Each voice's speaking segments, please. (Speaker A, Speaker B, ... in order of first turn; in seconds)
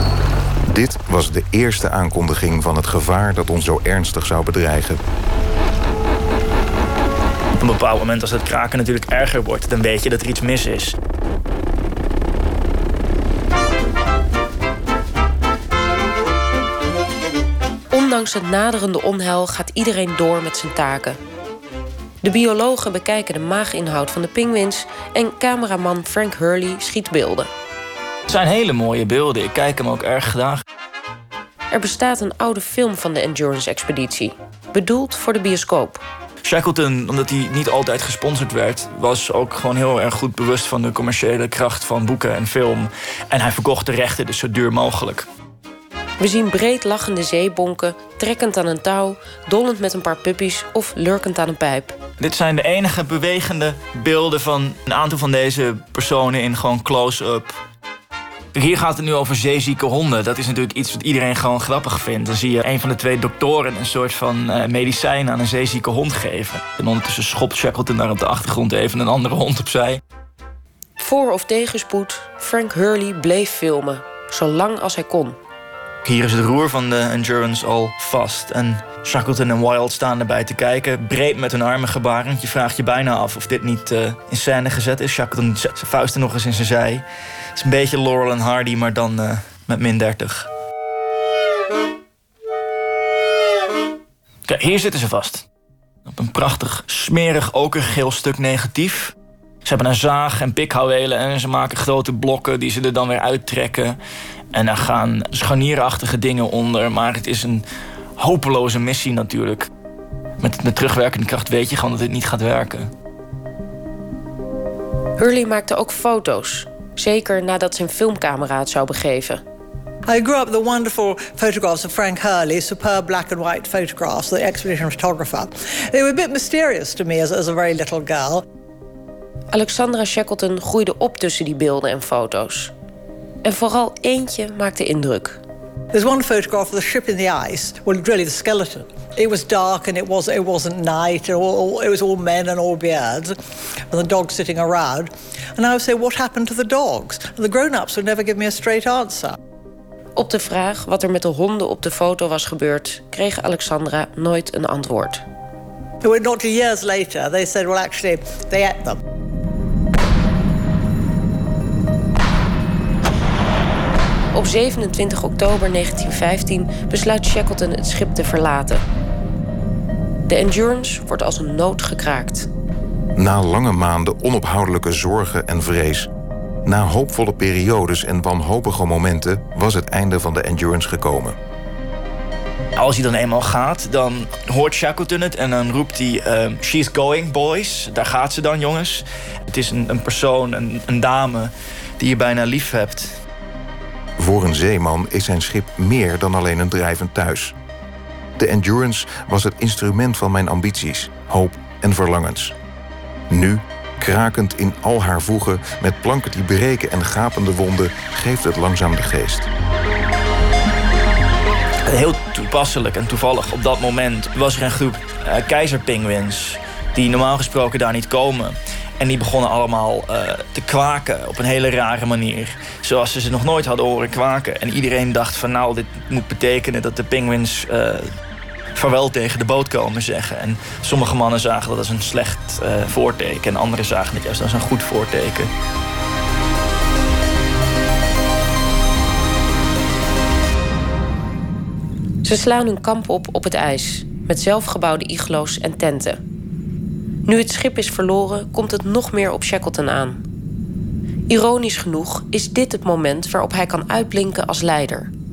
Speaker A: 0.6-5.0, 173.1-176.1, 176.6-181.4, 194.2-197.5, 198.4-202.5, 203.3-209.5
Speaker B: 7.6-11.0, 28.3-30.6, 36.4-45.3, 52.2-57.6, 58.5-70.0, 76.0-87.0, 87.5-90.5, 94.5-95.5, 96.1-99.1, 99.6-104.0, 104.5-107.6, 108.2-109.7, 110.4-112.9, 182.8-193.2, 211.8-228.1, 228.8-235.5
Speaker C: 17.9-21.2, 22.2-27.5, 31.7-36.0, 46.2-52.0, 71.0-75.4, 115.2-119.4, 129.5-132.7, 133.4-135.4, 150.2-155.2, 164.3-168.8, 170.3-172.5, 242.2-246.2, 247.3-250.2, 251.3-255.1
Speaker D: 120.1-128.4, 135.9-143.4, 143.9-149.4, 156.0-159.0